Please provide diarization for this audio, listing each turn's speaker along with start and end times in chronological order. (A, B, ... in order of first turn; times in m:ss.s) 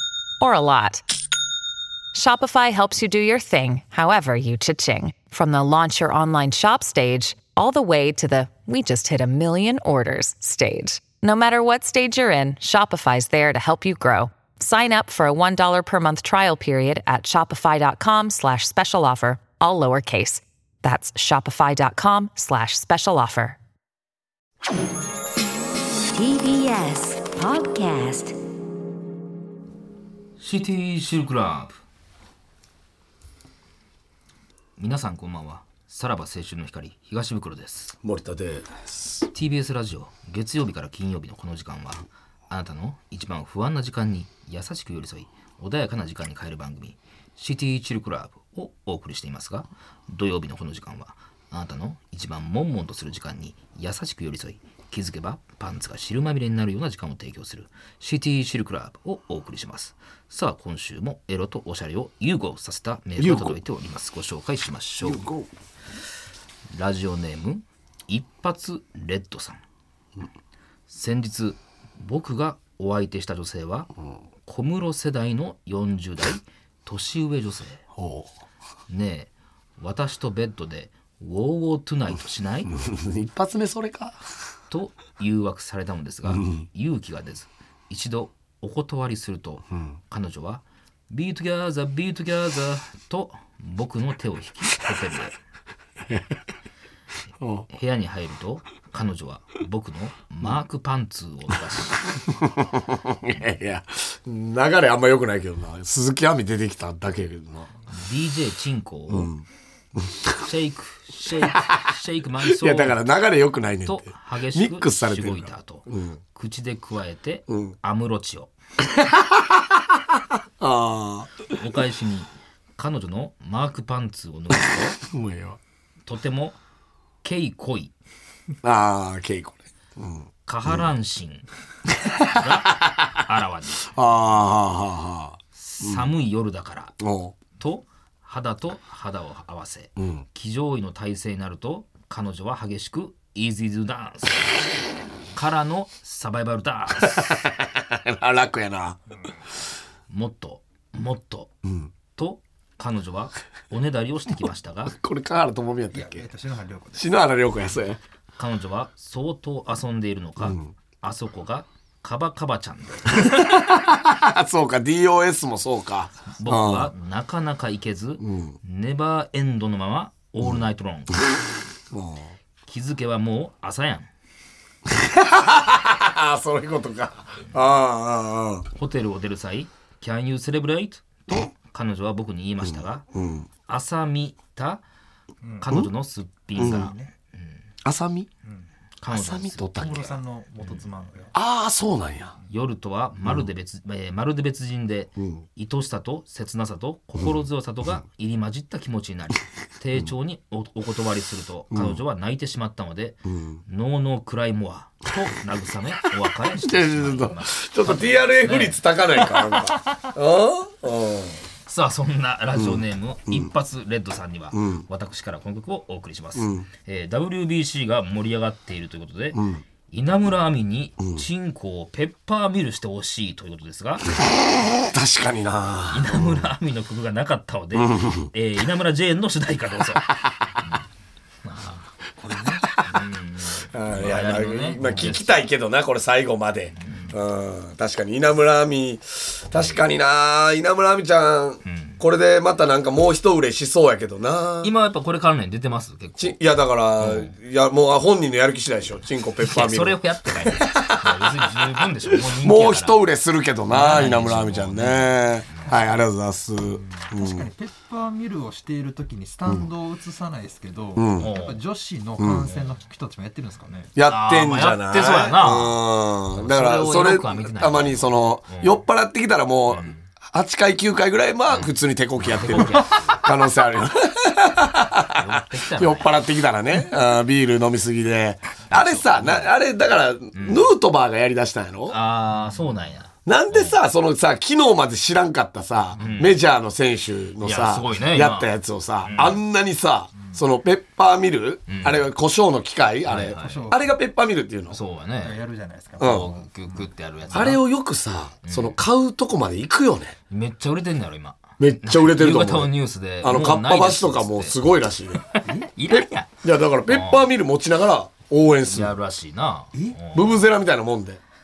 0:00.4-0:01.0 A
0:02.1-0:23.6 A
0:26.1-0:28.4 B
0:30.4-0:31.8 C
0:34.8-0:38.0 C
0:38.0-0:39.2 D
0:39.3-1:05.3 C
1:03.2-1:03.6 D
1:05.0-1:05.5 D
1:06.7-1:09.6 C
1:10.9-1:13.9 C
1:14.4-1:17.8 C
1:18.0-1:18.3 D
1:18.9-1:22.8 C
1:22.7-1:24.2 D
1:24.7-1:35.4 C
1:26.2-1:26.6 D
1:37.4-1:37.7 D
1:37.7-1:42.2 C
1:42.3-1:47.7 D
1:47.9-1:49.3 C
1:49.1-1:49.4 D
1:50.0-1:50.4 D
1:50.4-1:53.0 C
1:51.4-1:51.8 D
1:52.4-1:56.2 D
1:53.8-1:58.5 C
1:57.5-1:57.7 D
1:58.8-2:01.4 D
2:01.5-2:05.0 C
2:04.5-2:05.6 D
2:06.0-2:06.6 C
2:07.2-2:07.9 C
2:08.6-2:10.9 D
2:10.5-2:11.5 C
2:12.0-2:13.2 D
2:12.2-2:13.9 C
2:13.9-2:16.1 D
2:15.5-2:17.0 C
2:17.0-2:17.4 D
2:17.6-2:24.7 C
2:20.0-2:20.2 D
2:25.3-2:27.5 C
2:27.0-2:29.0 D
2:30.1-2:31.6 C
2:31.6-2:31.9 D
2:32.2-2:35.0 C
2:34.9-2:36.3 D
2:35.9-2:37.1 E
2:37.0-2:38.0 D
2:38.4-2:43.2 C
2:40.4-2:40.7 D
2:43.2-2:46.9 D
2:46.4-2:51.2 C
2:48.2-2:48.6 D
2:51.9-2:52.3 D
2:52.7-2:54.1 C
2:54.9-2:58.7 D
2:58.8-3:03.1 C
3:02.7-3:03.5 D
3:03.7-3:04.8 C
3:05.6-3:07.6 C
3:06.6-3:06.9 D
3:06.6-3:07.1 E
3:07.8-3:08.3 D
3:09.0-3:10.0 C
3:09.1-3:10.2 D
3:09.8-3:11.3 E
3:10.6-3:10.9 C
3:11.3-3:12.3 D
3:12.5-3:28.8 C
3:15.2-3:15.4 D
3:21.7-3:22.0 D
3:23.3-3:23.6 D
3:26.6-3:31.4 D
3:31.7-3:44.2 C
3:32.6-3:33.5 D
3:34.5-3:34.8 D
3:36.4-3:36.7 D
3:39.3-3:39.6 D
3:44.6-3:46.5 D
3:45.9-3:50.1 C
3:47.8-3:48.3 D
3:51.4-3:51.8 C
3:52.3-3:52.9 D
3:52.8-3:55.5 C
3:53.7-4:04.7 D
3:56.8-3:57.2 C
3:59.5-3:59.8 C
4:01.6-4:02.0 C
4:04.6-4:06.4 C
4:06.2-4:17.5 D
4:07.0-4:07.3 C
4:09.4-4:13.0 C
4:13.7-4:15.7 C
4:17.0-4:23.9 E
4:21.0-4:21.3 D
4:21.2-4:21.6 C
4:22.2-4:22.5 D
4:23.9-4:42.0 D
4:24.0-4:25.8 C
4:26.3-4:28.8 C
4:29.7-4:30.0 C
4:31.5-4:33.2 C
4:35.1-4:36.2 C
4:38.7-4:39.5 C
4:40.4-4:40.7 C
4:41.9-4:43.8 C
4:43.2-4:54.8 D
4:46.0-4:46.4 C
4:47.4-4:48.5 C
4:49.0-4:49.4 C
4:51.7-4:52.1 C
4:53.1-4:53.6 C
4:53.4-4:53.8 E
4:54.7-4:55.4 C
4:55.2-4:57.5 E
4:56.0-4:56.3 D
4:56.0-4:57.6 C
4:57.3-5:00.2 D
4:58.4-4:58.8 C
5:00.3-5:04.6 C
5:01.6-5:05.2 D
5:05.2-5:07.3 C
5:05.9-5:08.9 D
5:08.7-5:10.4 C
5:10.1-5:11.2 D